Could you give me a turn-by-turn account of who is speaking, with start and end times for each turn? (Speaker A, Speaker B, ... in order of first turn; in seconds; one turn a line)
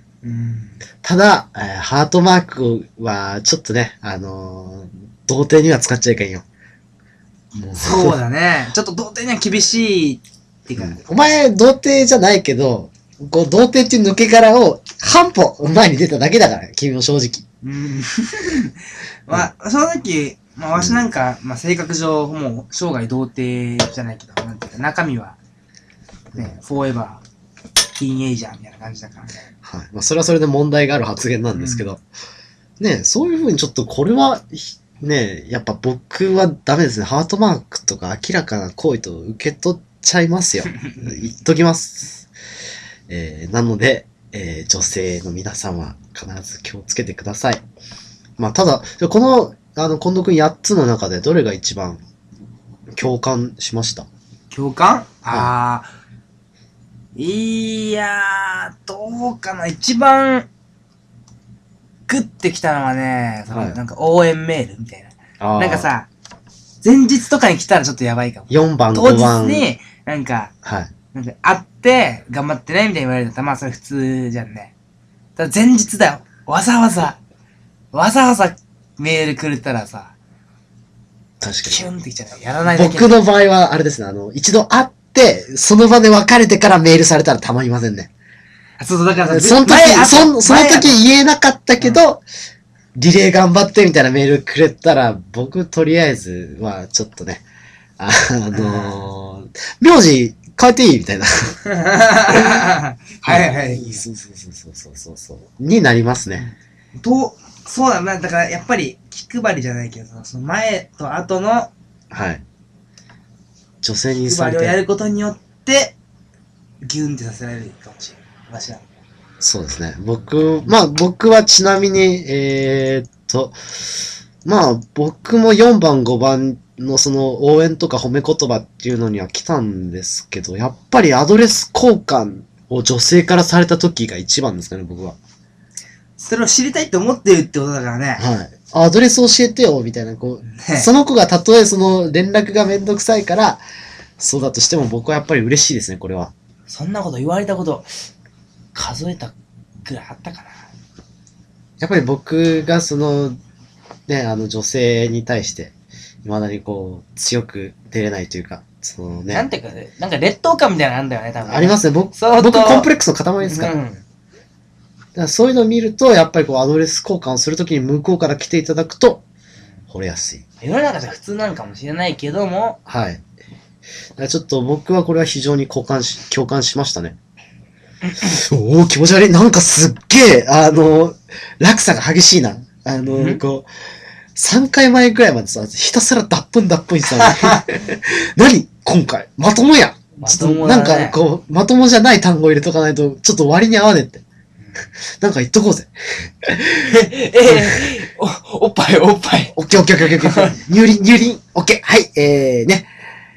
Speaker A: 0.2-0.8
Speaker B: 1.0-6.4
Speaker B: 7.6-8.2
Speaker A: 7.8-11.2
Speaker B: 10.8-17.5
Speaker A: 17.6-25.4
Speaker B: 20.8-21.1
Speaker A: 26.4-27.2
Speaker A: 27.9-29.5
Speaker B: 29.6-32.0
Speaker A: 31.5-31.9
Speaker B: 32.8-42.3
Speaker A: 40.7-41.2
Speaker B: 43.1-47.6
Speaker B: 48.4-52.0
Speaker B: 53.0-54.1
Speaker A: 54.5-55.9
Speaker A: 57.2-60.5
Speaker A: 62.1-66.1
Speaker B: 63.5-63.8
Speaker B: 65.4-65.9
Speaker A: 66.8-70.5
Speaker B: 68.5-69.7
Speaker B: 70.6-70.9
Speaker A: 71.1-74.7
Speaker A: 75.4-77.2
Speaker A: 77.9-80.1
Speaker B: 81.4-81.9
Speaker A: 81.6-83.1
Speaker B: 82.7-88.1
Speaker A: 88.8-91.0
Speaker B: 89.3-92.2
Speaker B: 93.0-97.4
Speaker B: 98.0-101.6
Speaker A: 98.5-99.0
Speaker A: 101.7-104.0
Speaker B: 103.3-106.5
Speaker A: 106.3-111.7
Speaker B: 112.1-112.4
Speaker B: 113.8-114.8
Speaker A: 114.2-116.0
Speaker A: 116.8-118.9
Speaker B: 119.4-123.5
Speaker B: 124.5-135.2
Speaker A: 136.2-138.2
Speaker B: 138.2-143.6
Speaker A: 140.5-140.9
Speaker B: 144.2-146.3
Speaker A: 146.7-147.9
Speaker A: 148.8-149.3
Speaker A: 149.8-150.7
Speaker B: 151.8-153.4
Speaker B: 154.1-155.7
Speaker B: 156.2-159.4
Speaker A: 159.3-162.9
Speaker B: 161.5-163.7
Speaker A: 163.4-164.0
Speaker B: 165.2-169.2
Speaker B: 169.9-170.4
Speaker A: 170.6-172.8
Speaker B: 172.9-173.2
Speaker B: 174.2-177.2
Speaker A: 178.1-178.4
Speaker B: 178.2-183.7
Speaker A: 183.1-183.4
Speaker B: 184.4-194.2
Speaker A: 187.2-187.6
Speaker A: 190.2-191.2
Speaker B: 195.2-196.9
Speaker A: 196.8-200.6
Speaker B: 197.5-197.9
Speaker B: 199.6-202.9